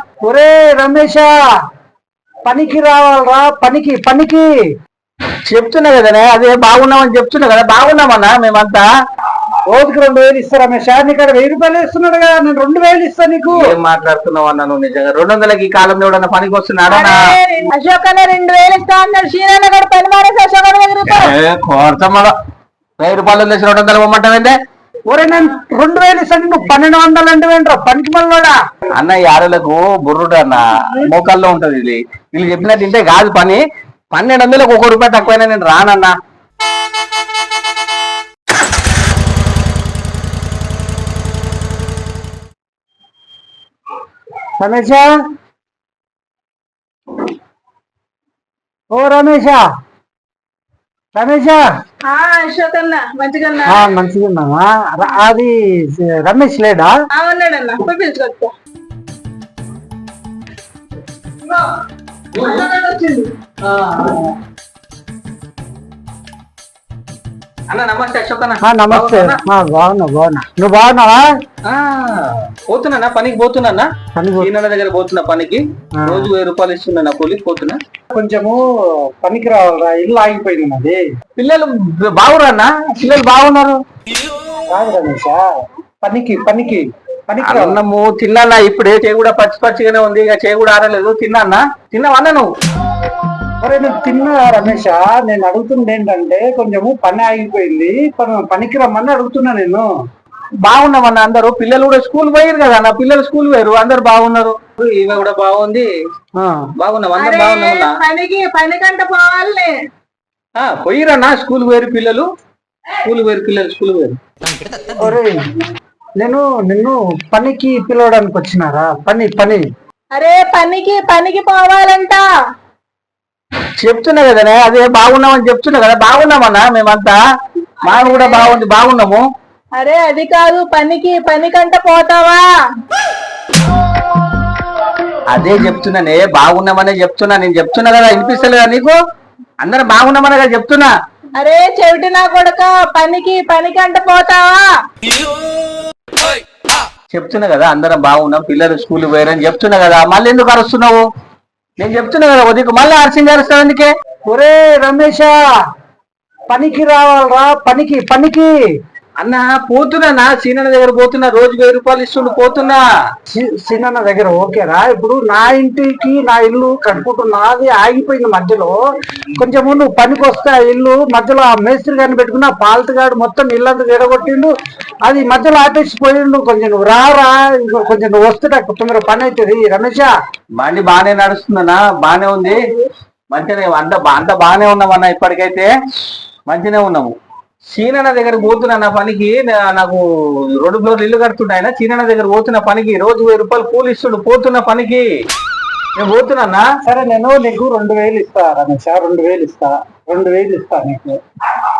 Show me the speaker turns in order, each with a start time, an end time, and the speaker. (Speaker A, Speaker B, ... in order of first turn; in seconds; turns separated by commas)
Speaker A: 0.2-1.3, Speaker A: 2.5-4.5, Speaker B: 5.5-8.9, Speaker A: 9.7-13.6, Speaker B: 13.5-17.2, Speaker C: 16.9-21.3, Speaker B: 21.1-22.3, Speaker B: 23.0-24.5, Speaker A: 25.1-28.6, Speaker B: 29.0-36.1, Speaker A: 44.6-45.1, Speaker A: 48.9-49.6, Speaker A: 51.1-51.6, Speaker C: 52.1-53.8, Speaker A: 53.7-56.9, Speaker C: 57.1-58.5, Speaker C: 62.3-63.3, Speaker B: 63.6-64.3, Speaker B: 67.7-69.4, Speaker A: 68.6-71.2, Speaker B: 71.7-73.9, Speaker A: 74.2-74.5, Speaker B: 74.4-77.8, Speaker A: 76.0-76.3, Speaker A: 78.1-78.6, Speaker A: 79.2-81.0, Speaker B: 81.4-83.8, Speaker A: 84.7-85.4, Speaker A: 86.0-87.8, Speaker B: 87.4-92.5, Speaker A: 93.6-99.8, Speaker B: 100.6-105.9, Speaker A: 106.4-106.6, Speaker B: 106.8-108.0, Speaker C: 107.2-109.7, Speaker B: 110.5-112.3, Speaker B: 113.0-114.2, Speaker A: 115.0-115.4, Speaker A: 116.2-119.6, Speaker C: 120.1-122.2, Speaker B: 123.8-127.2, Speaker C: 127.8-128.6, Speaker B: 127.8-129.2, Speaker C: 129.8-132.4, Speaker B: 135.3-139.0, Speaker C: 138.2-138.5, Speaker B: 139.6-140.9, Speaker C: 141.4-144.7, Speaker B: 147.1-151.0, Speaker B: 151.8-153.9, Speaker A: 154.3-155.4, Speaker A: 156.5-158.5, Speaker B: 159.2-162.8, Speaker A: 163.3-168.8, Speaker A: 169.4-174.5, Speaker A: 175.1-180.1, Speaker B: 180.6-182.6, Speaker C: 182.4-182.9, Speaker B: 183.3-185.7, Speaker B: 186.5-187.1, Speaker B: 187.7-190.0, Speaker B: 190.5-195.1, Speaker B: 195.9-196.7, Speaker A: 196.8-201.1